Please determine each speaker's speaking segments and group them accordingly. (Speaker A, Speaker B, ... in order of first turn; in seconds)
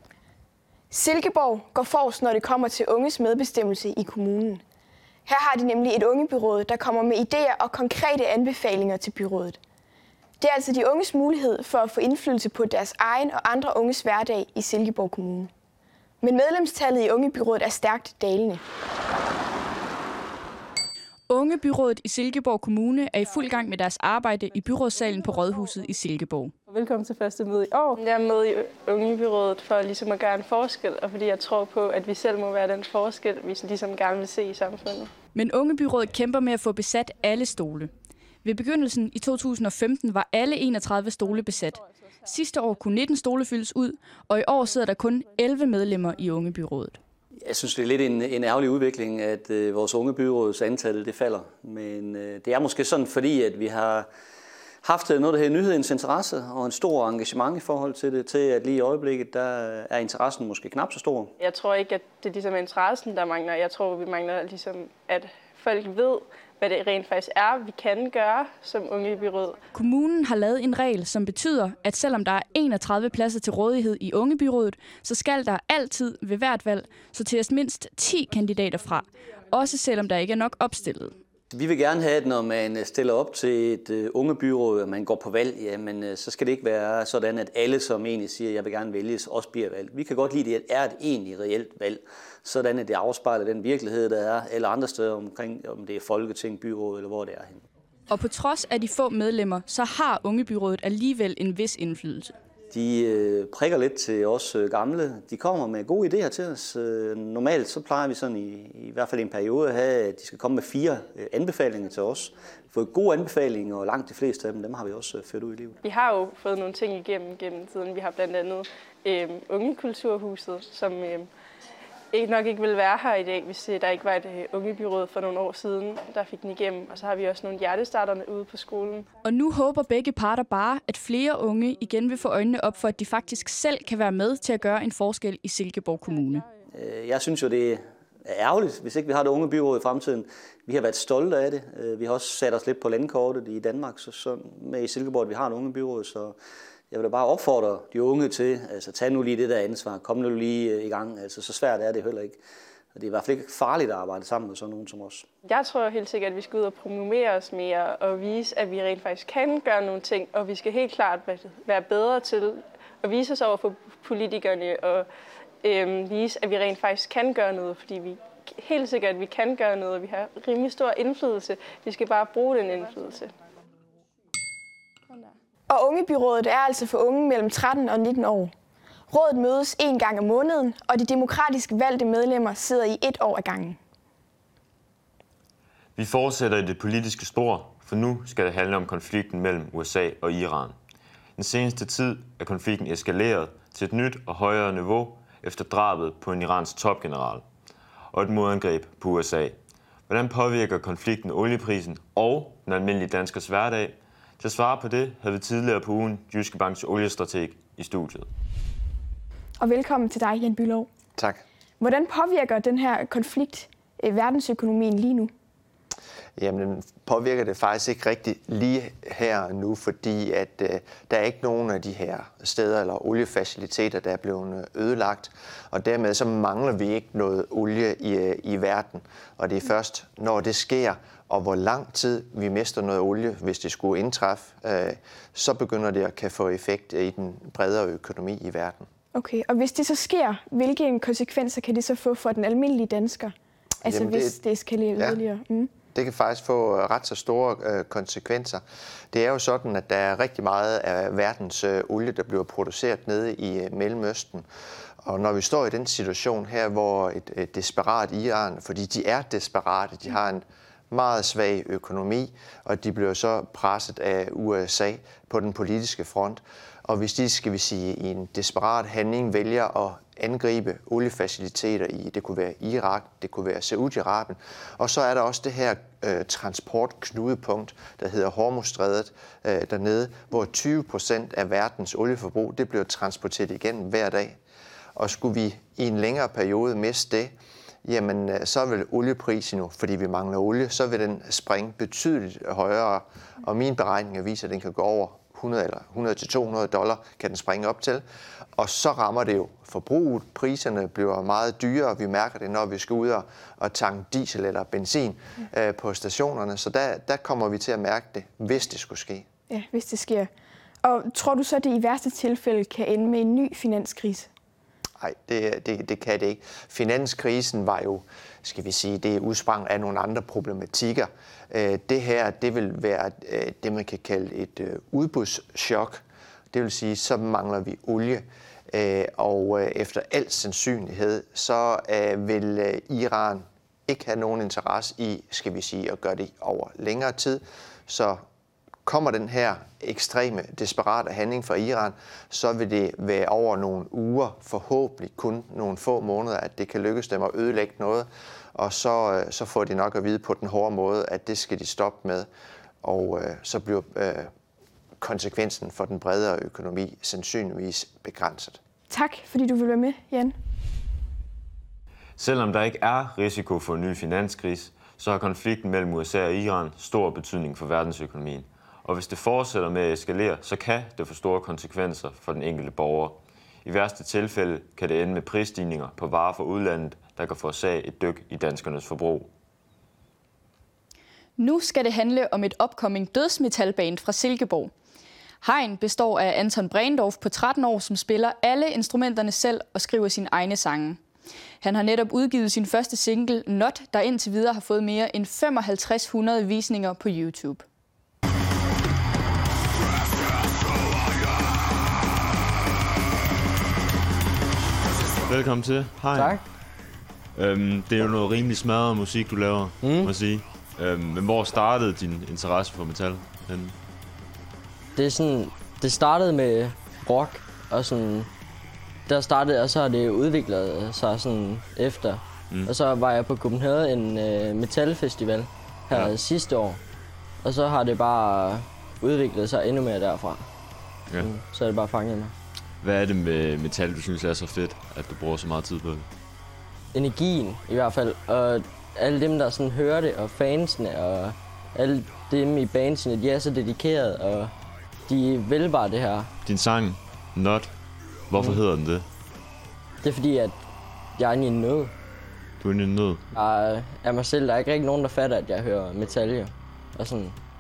Speaker A: 0.9-4.6, 5.2-9.6, 10.4-15.5, 16.2-18.6, 175.7-178.5, 179.1-183.8, 209.6-210.9, 211.8-215.3, 239.1-245.7, 309.5-310.3, 310.8-314.3, 358.9-360.3
Speaker B: 21.3-26.5, 35.3-37.9, 38.4-47.0, 69.7-81.2, 98.1-102.3, 129.2-136.5, 381.4-384.7, 385.4-391.0, 391.6-397.6
Speaker C: 26.7-35.1, 61.4-69.5, 115.8-121.3, 122.1-129.1, 155.4-165.1, 165.6-173.3
Speaker D: 47.4-54.1, 54.8-61.3, 81.5-97.6, 102.7-115.8, 136.7-146.3, 146.9-152.4, 152.9-155.2
Speaker E: 185.9-190.7, 191.4-197.4, 198.1-199.6, 200.1-208.3, 362.2-379.3, 405.3-406.4, 407.3-413.8, 432.8-436.1, 446.4-447.7, 448.3-449.1, 452.6-453.2
Speaker F: 216.4-238.9, 243.8-244.3, 245.9-254.4, 255.0-284.4, 284.9-287.3, 287.8-298.0, 298.6-309.2, 315.0-338.2, 338.8-352.3, 352.8-354.3, 355.0-358.6
Speaker G: 406.1-406.4, 409.8-410.1, 414.9-418.3, 419.1-426.8, 427.4-430.5, 431.2-432.3, 436.9-444.5, 445.1-446.3, 450.0-450.6, 451.1-451.9, 453.3-457.4